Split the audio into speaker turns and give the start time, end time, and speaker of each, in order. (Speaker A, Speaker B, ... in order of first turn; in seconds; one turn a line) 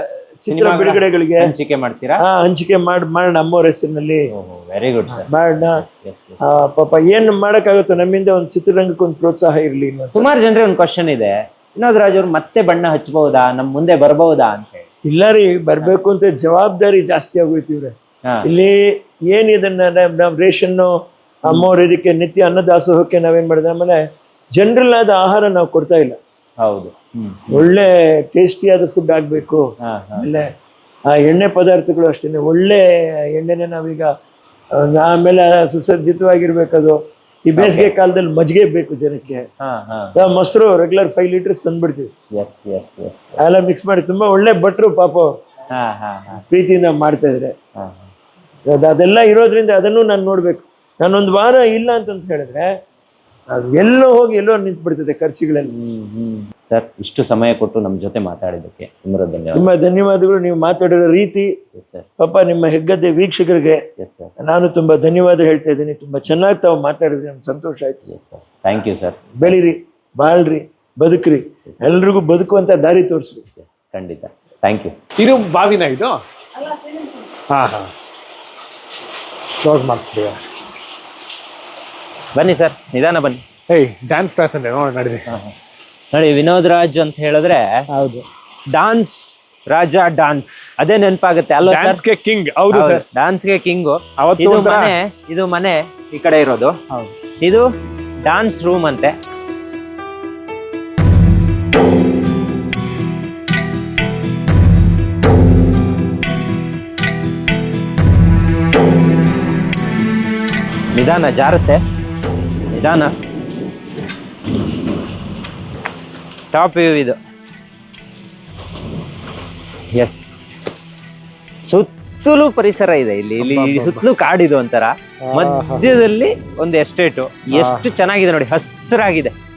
Speaker A: 0.4-1.5
Speaker B: 0.5-2.2
Speaker A: 2.2-4.2
Speaker B: 4.3-6.4
Speaker A: 5.1-5.8
Speaker A: 6.4-10.3
Speaker B: 10.1-14.9
Speaker A: 15.1-20.9
Speaker A: 21.5-26.2
Speaker B: 26.6-27.6
Speaker A: 27.5-29.6
Speaker B: 29.8-30.3
Speaker A: 30.2-30.5
Speaker A: 31.1-32.8
Speaker A: 33.3-34.1
Speaker A: 34.8-39.5
Speaker B: 37.6-37.9
Speaker B: 39.6-40.1
Speaker A: 40.1-42.1
Speaker B: 42.4-43.4
Speaker A: 43.4-45.4
Speaker B: 45.7-46.4
Speaker A: 46.5-47.5
Speaker B: 47.8-48.1
Speaker A: 48.7-52.7
Speaker A: 53.5-55.7
Speaker B: 55.8-59.7
Speaker A: 59.5-61.5
Speaker B: 61.8-62.1
Speaker A: 62.2-63.8
Speaker B: 64.0-64.3
Speaker A: 64.4-68.0
Speaker B: 68.1-69.6
Speaker A: 69.4-73.4
Speaker B: 73.6-74.9
Speaker C: 75.2-76.2
Speaker C: 76.7-77.9
Speaker C: 79.6-80.4
Speaker B: 82.4-83.4
Speaker C: 83.7-85.3
Speaker B: 85.3-85.5
Speaker B: 86.1-87.8
Speaker C: 87.9-88.2
Speaker B: 88.7-92.0
Speaker C: 91.7-93.0
Speaker B: 92.7-96.8
Speaker C: 94.2-94.9
Speaker B: 97.4-97.7
Speaker B: 98.2-99.1
Speaker B: 110.9-111.8
Speaker B: 112.7-113.2
Speaker B: 116.5-117.2
Speaker B: 119.9-120.4
Speaker B: 121.6-129.3
Speaker C: 123.4-124.0
Speaker C: 125.2-125.9
Speaker C: 127.5-127.9